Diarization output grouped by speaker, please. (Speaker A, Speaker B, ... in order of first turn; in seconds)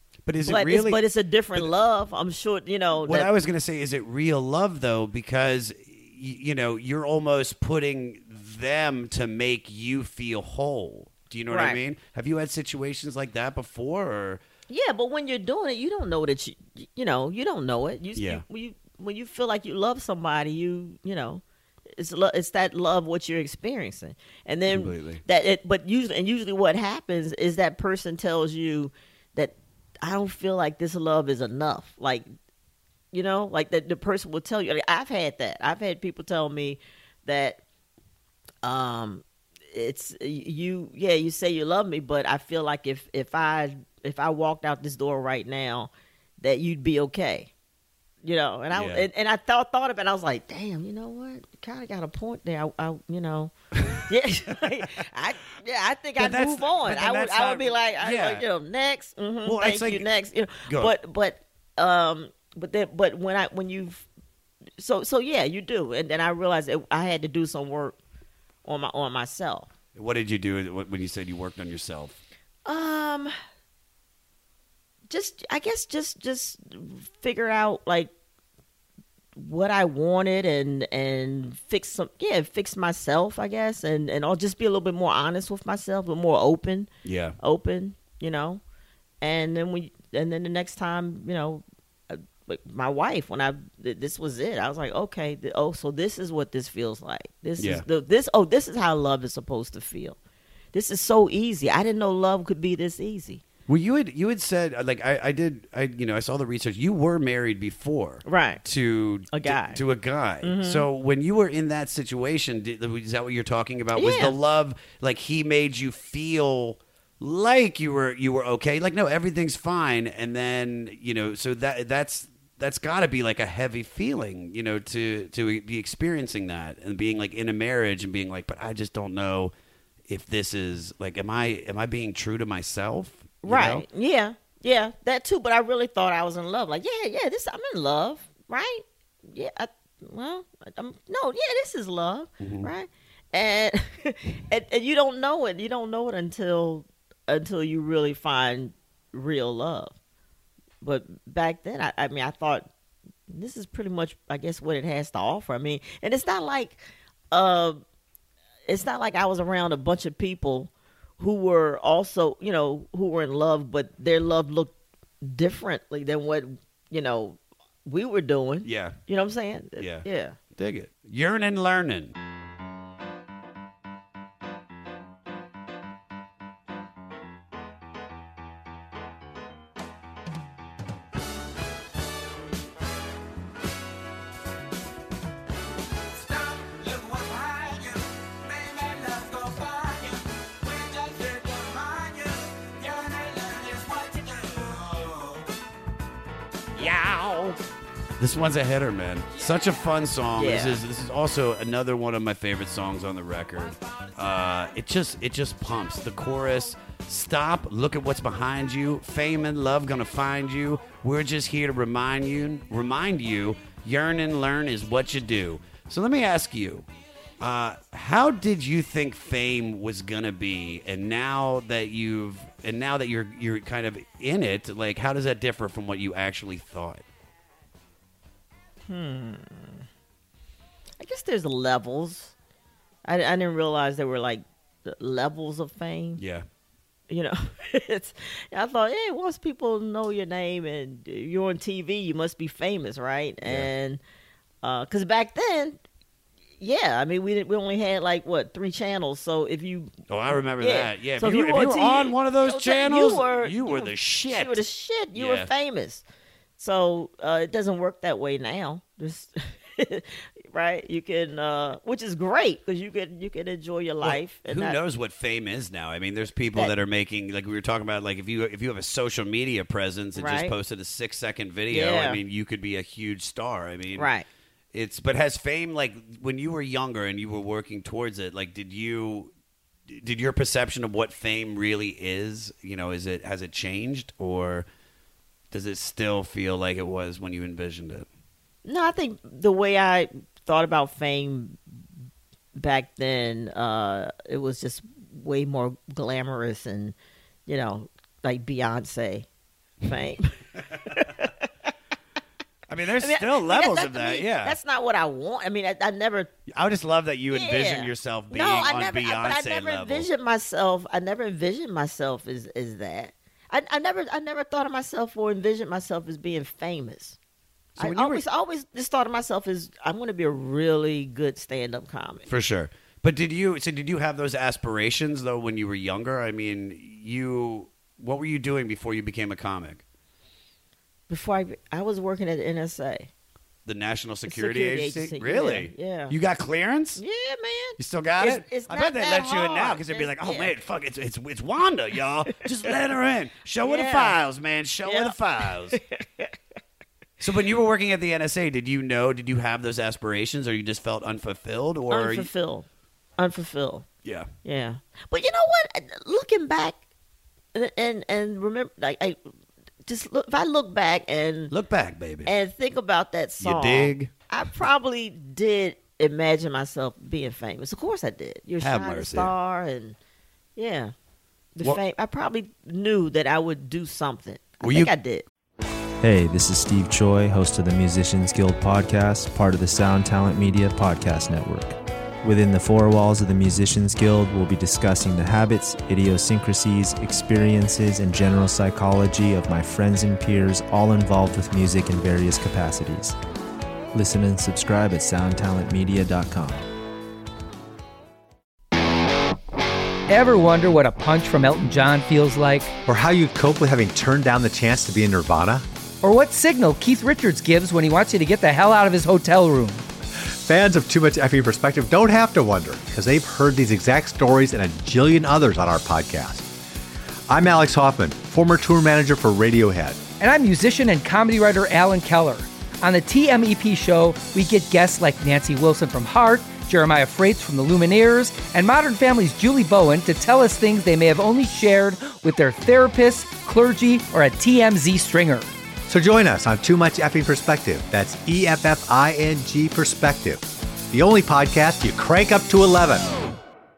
Speaker A: 0.2-1.0, 3.0-14.4, 18.1-18.4, 24.7-25.2, 48.7-49.1, 56.2-58.4, 59.4-60.1, 60.6-60.9, 69.9-72.2, 87.0-87.4, 97.6-97.9, 103.7-129.5, 130.1-133.9, 142.4-142.7, 168.6-169.0, 169.8-172.1, 196.7-197.6, 198.2-216.9, 217.4-227.1, 236.2-236.5, 243.4-243.7, 250.1-254.6, 255.1-255.5, 264.0-274.1, 274.7-279.3, 279.9-284.7, 285.5-288.1, 302.7-304.6, 306.5-310.1, 317.7-318.2, 322.3-329.8, 333.7-337.0, 337.8-345.8, 347.2-352.3, 354.0-354.3, 361.5-362.3, 363.4-364.1, 368.6-369.3, 374.6-374.9
Speaker B: 0.5-3.3, 11.5-11.8, 14.7-21.4, 22.0-32.3, 33.1-37.6, 38.6-47.5, 48.2-53.5, 54.1-64.1, 64.8-68.0, 68.6-69.7, 72.6-73.3, 75.1-78.1, 79.4-86.9, 87.4-88.6, 89.2-100.2, 100.7-103.4, 108.3-108.6, 109.3-109.8, 110.4-110.9, 114.0-114.4, 133.4-149.9, 150.8-152.7, 153.3-156.8, 157.3-157.8, 158.7-170.4, 200.4-200.8, 228.9-229.8, 231.0-232.3, 233.1-236.2, 237.1-244.0, 244.6-245.8, 246.6-249.9, 250.6-256.0, 256.6-264.8, 270.2-270.5, 271.7-272.2, 273.9-274.3, 288.6-291.6, 292.6-296.9, 297.5-299.3, 299.8-301.5, 303.0-306.3, 307.3-317.2, 317.8-322.3, 331.1-333.1, 334.3-336.2, 337.0-340.5, 343.6-344.2, 344.8-345.2, 345.7-346.3, 351.9-352.7, 353.2-353.9, 354.4-356.8, 357.5-359.2, 359.9-361.5, 362.2-369.9, 370.6-370.9, 371.6-375.2
Speaker C: 376.0-393.2, 393.9-396.7
Speaker D: 400.1-402.7, 406.0-409.8, 420.2-435.5
Speaker E: 402.9-405.6, 410.3-416.5, 417.3-420.1, 435.9-443.3